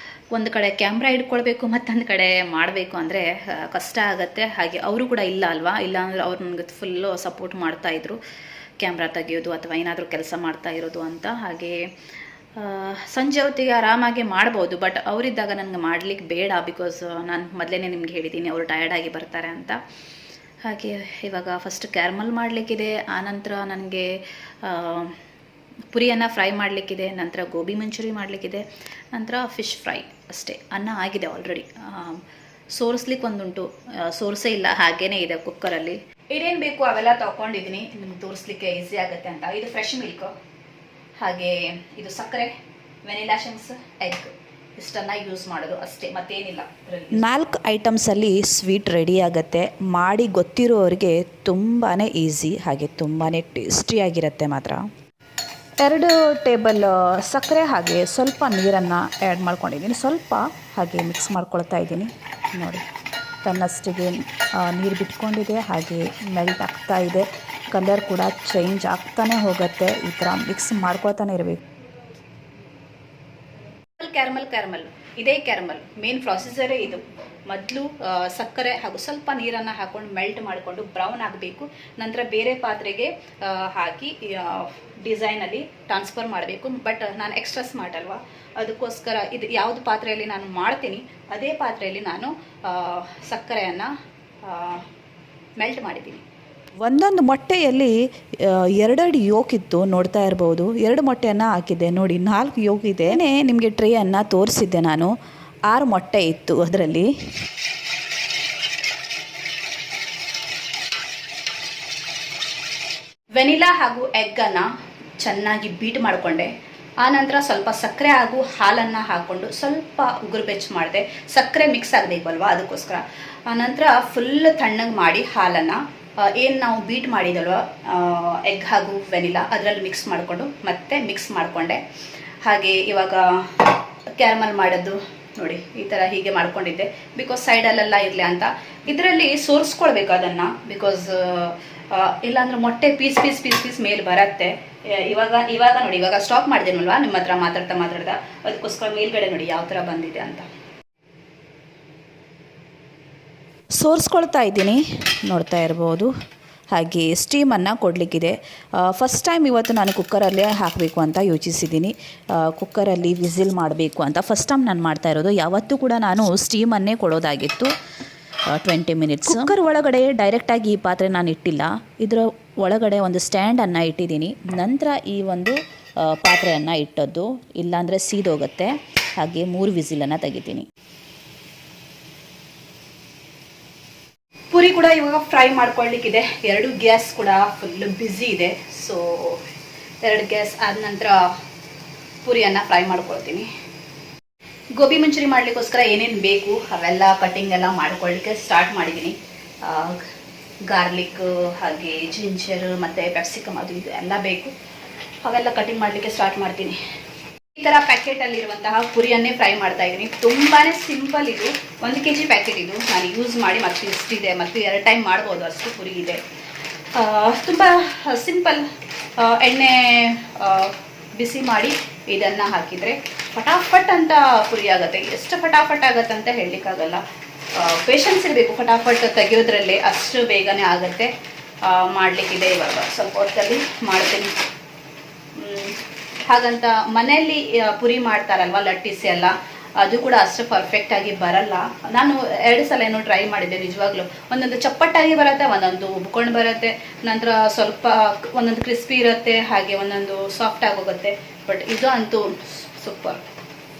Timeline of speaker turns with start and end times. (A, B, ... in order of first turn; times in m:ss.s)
0:00.3-0:08.2 A
0:08.8-0:11.8 A
0:12.6-0:19.8 A
0:20.6-0:25.2 A
0:25.9-0:32.2 A
0:32.7-0:40.3 A
0:41.2-0:42.5 A
0:43.1-0:47.3 A
0:47.2-0:54.8 B
0:50.1-0:50.6 A
0:51.4-0:51.7 A
0:55.8-1:02.8 B
0:59.6-1:00.1 A
1:01.2-1:02.0 A
1:03.5-1:11.6 B
1:14.0-1:33.9 A
1:34.4-1:34.8 A
1:35.6-1:36.2 A
1:36.8-1:45.1 B
1:45.7-1:47.1 B
1:53.3-1:54.7 A
1:55.2-1:56.5 A
1:57.0-2:11.8 A
2:12.4-2:30.5 A
2:33.8-2:36.1 B
2:36.8-2:38.3 B
2:39.0-2:41.9 B
2:39.1-2:39.5 A
2:42.5-2:47.7 B
2:48.5-2:53.2 B
2:49.3-2:49.6 A
2:52.7-2:54.2 A
2:53.8-2:58.7 B
2:56.7-2:58.7 A
2:59.2-2:59.9 B
2:59.3-3:00.6 A
3:04.5-3:09.4 A
3:10.0-3:11.2 A
3:12.2-3:13.5 A
3:14.8-3:20.0 A
3:20.7-3:24.5 A
3:25.2-3:26.8 A
3:27.6-3:36.2 A
3:37.0-3:38.7 A
3:39.2-3:47.0 A
3:47.6-3:51.1 A
3:51.6-3:54.3 A
3:55.4-4:13.2 A